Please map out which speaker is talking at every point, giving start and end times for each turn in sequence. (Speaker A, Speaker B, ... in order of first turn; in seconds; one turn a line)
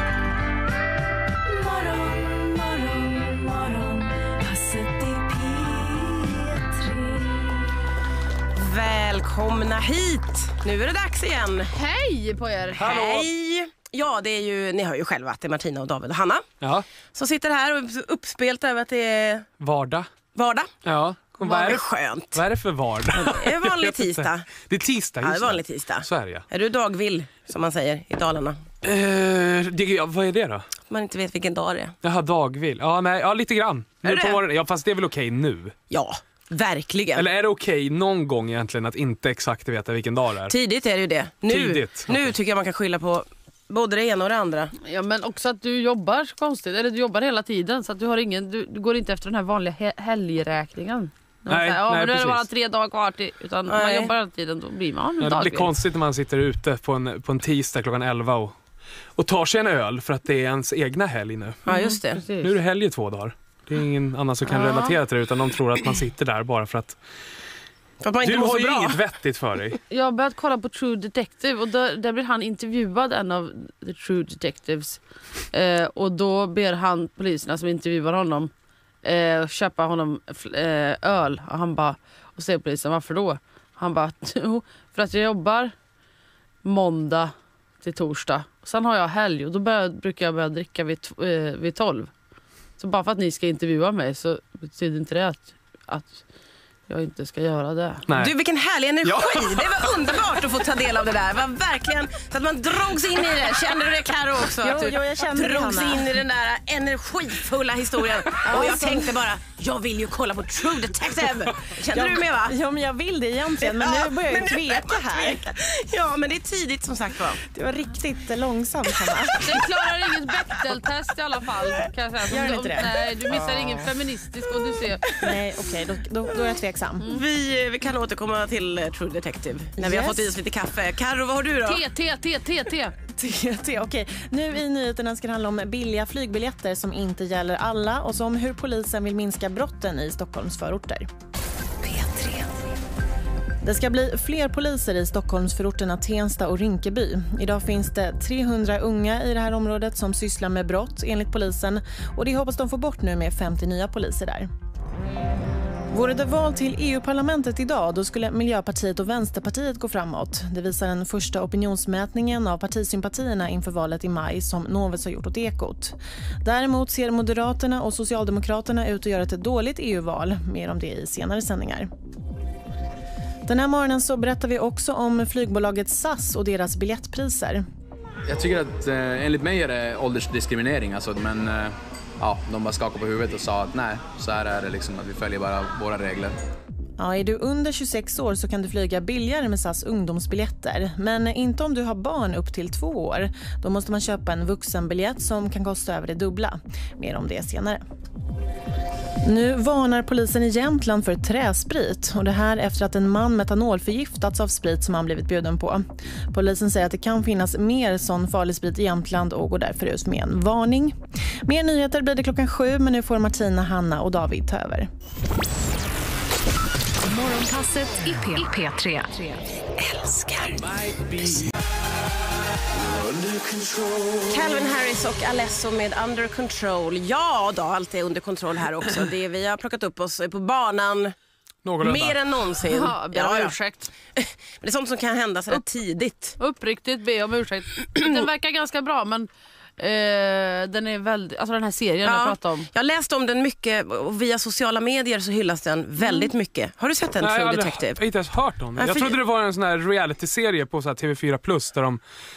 Speaker A: 2.0-3.6
Speaker A: 4.3-6.8
Speaker B: 8.5-11.7
Speaker C: 11.7-12.8
Speaker B: 12.8-16.4
Speaker D: 12.8-13.3
Speaker D: 16.6-16.9
Speaker B: 17.1-19.5
Speaker D: 19.6-20.1
Speaker B: 20.3-20.7
Speaker D: 20.8-26.5
Speaker B: 21.4-22.4
Speaker B: 23.1-24.5
Speaker B: 25.2-28.6
Speaker D: 28.8-30.7
Speaker B: 30.9-31.9
Speaker D: 32.0-35.7
Speaker B: 34.0-34.4
Speaker B: 35.9-37.3
Speaker D: 37.1-40.5
Speaker B: 40.5-44.7
Speaker D: 41.5-42.3
Speaker C: 44.8-55.8
Speaker D: 51.5-52.4
Speaker B: 53.7-54.1
Speaker D: 55.2-58.5
Speaker D: 59.2-61.7
Speaker B: 61.6-62.2
Speaker C: 61.7-62.5
Speaker D: 62.4-67.0
Speaker C: 64.5-65.0
Speaker B: 68.0-69.0
Speaker D: 68.2-69.8
Speaker C: 69.9-75.0
Speaker C: 75.5-78.5
Speaker C: 79.0-85.7
Speaker C: 86.6-92.1
Speaker C: 92.8-96.2
Speaker C: 96.9-98.1
Speaker B: 98.1-112.5
Speaker D: 99.0-99.7
Speaker E: 104.6-106.2
Speaker E: 108.4-109.2
Speaker E: 111.9-115.4
Speaker B: 113.6-117.4
Speaker E: 117.4-119.6
Speaker C: 119.4-125.2
Speaker E: 122.3-122.9
Speaker E: 125.2-127.1
Speaker B: 127.1-131.8
Speaker E: 129.8-130.4
Speaker C: 131.6-132.9
Speaker E: 133.2-141.1
Speaker A: 141.8-142.5
Speaker E: 143.6-154.5
Speaker E: 155.9-171.9
Speaker E: 173.5-177.6
Speaker F: 178.3-186.3
Speaker E: 187.0-197.8
Speaker E: 199.2-210.9
Speaker E: 211.5-214.9
Speaker A: 217.0-221.4
Speaker B: 224.3-231.1
Speaker D: 231.6-232.2
Speaker B: 231.8-233.6
Speaker C: 232.7-233.9
Speaker B: 234.2-236.4
Speaker C: 236.4-242.7
Speaker B: 242.0-248.0
Speaker C: 246.0-246.3
Speaker D: 247.2-252.0
Speaker B: 248.8-249.2